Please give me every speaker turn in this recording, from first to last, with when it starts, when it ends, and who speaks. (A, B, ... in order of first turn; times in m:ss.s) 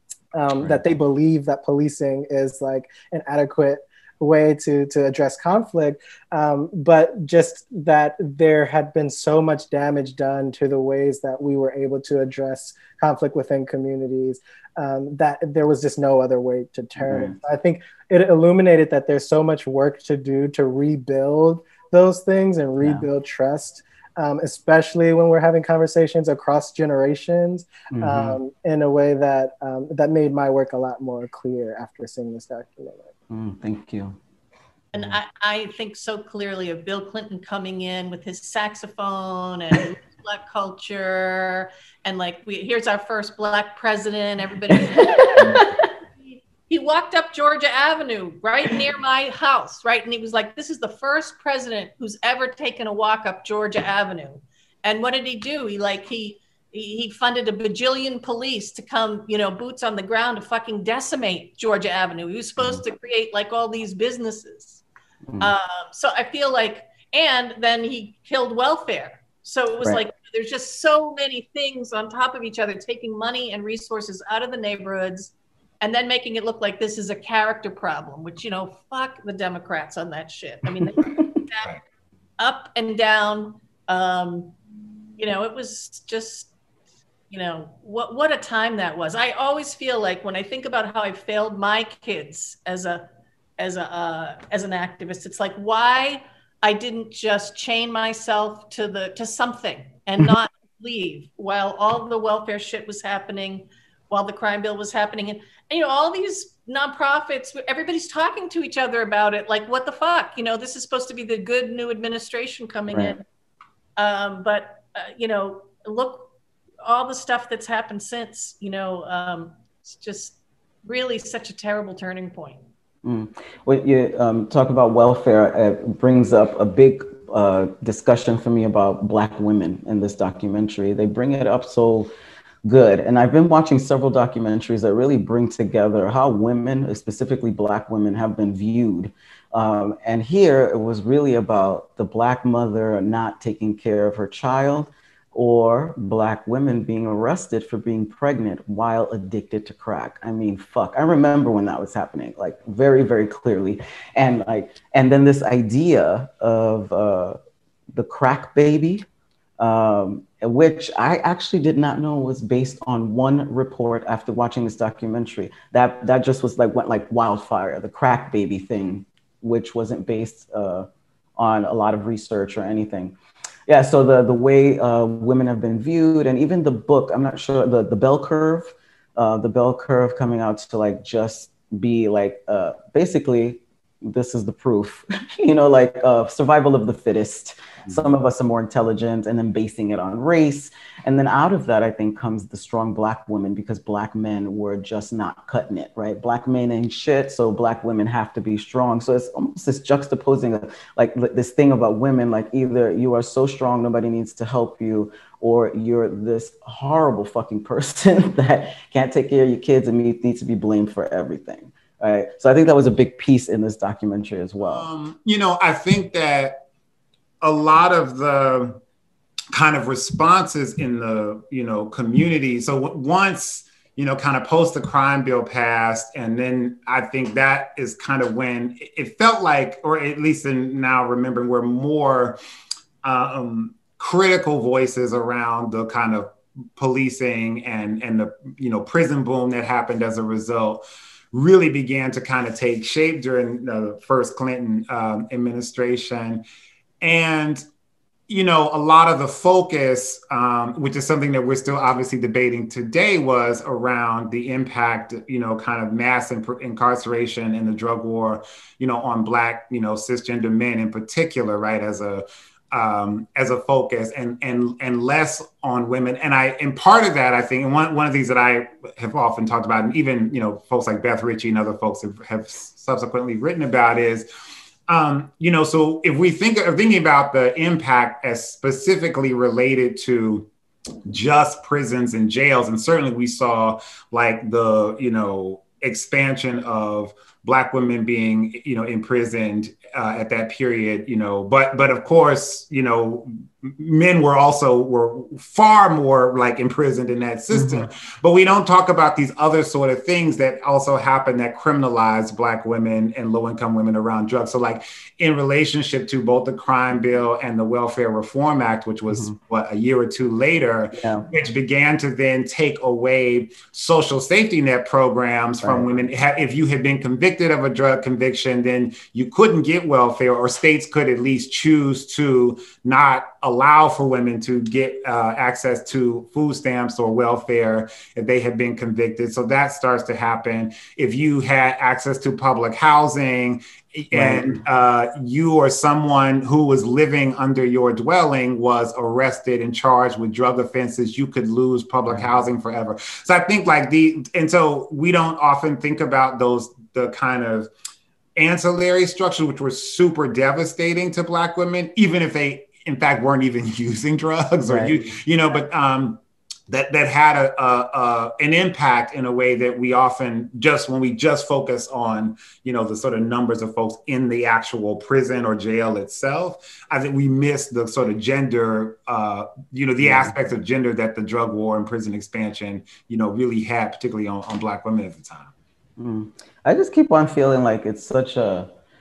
0:00.3-0:33.1 A
0:17.0-0:17.4 B
0:27.9-0:28.4 B
0:33.3-0:34.2 B
0:34.9-0:45.7 C
0:44.9-0:45.6 B
0:46.2-1:04.8 C
1:05.4-1:21.7 C
1:21.0-1:21.4 B
1:22.4-1:24.5 C
1:25.2-1:26.5 C
1:27.3-1:33.1 C
1:33.6-1:53.2 C
1:52.9-1:53.2 B
1:54.0-1:56.3 C
1:56.8-2:02.6 C
2:03.0-2:12.1 B
2:12.6-2:37.4 B
2:37.9-2:39.0 B
2:39.6-2:53.1 B
2:53.7-3:34.9 B
3:34.7-3:36.6 D
3:37.4-3:38.8 D
3:39.5-3:52.4 D
3:53.0-4:06.4 D
4:07.0-4:07.6 D
4:08.3-4:34.3 D
4:34.9-4:40.5 D
4:41.1-5:47.7 D
4:57.5-4:57.8 B
5:10.9-5:11.3 B
5:34.1-5:34.6 B
5:48.4-6:15.5 D
5:54.7-5:54.9 B
6:10.0-6:10.3 B
6:16.0-6:18.7 B